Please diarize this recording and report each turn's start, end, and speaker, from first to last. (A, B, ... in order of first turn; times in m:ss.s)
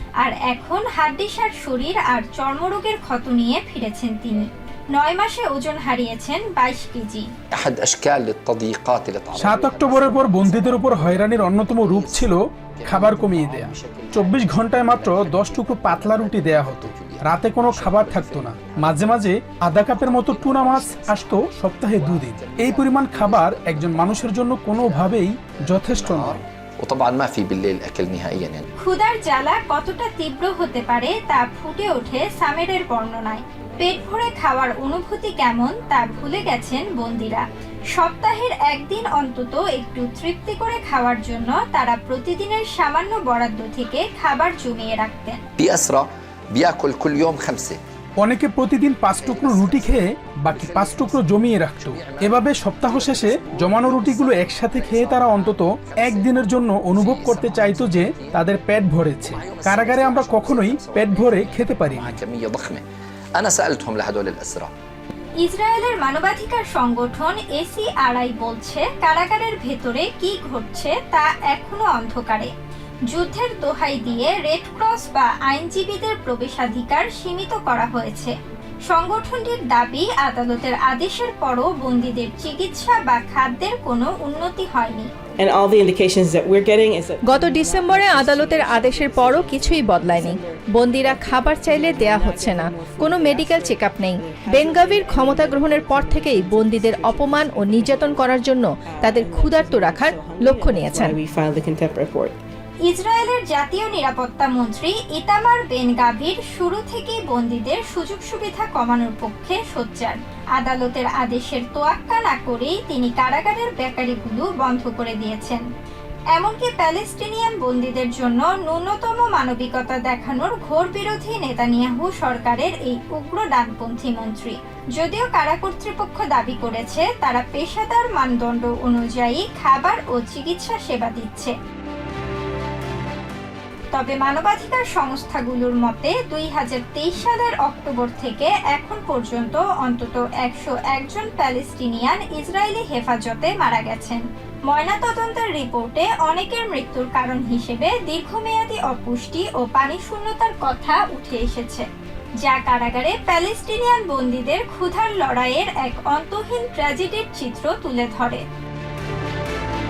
0:00.2-0:07.3 A
0:07.5-0:19.2 B
0:09.4-0:26.4 C
0:19.9-0:25.2 B
0:25.7-0:28.6 B
0:28.8-0:37.4 A
0:37.9-0:45.4 A
0:45.6-0:47.8 B
0:48.2-1:02.1 C
0:49.2-0:56.4 B
0:56.9-0:58.4 B
0:59.3-1:02.8 B
1:03.4-1:04.7 B
1:05.4-1:12.5 A
1:13.1-1:18.3 A
1:18.9-1:25.1 A
1:25.4-1:38.4 D
1:27.2-1:41.2 E
1:38.9-1:42.4 D
1:42.8-1:55.6 A
1:56.3-2:11.5 A
2:13.9-2:31.9 A
2:32.4-2:38.4 A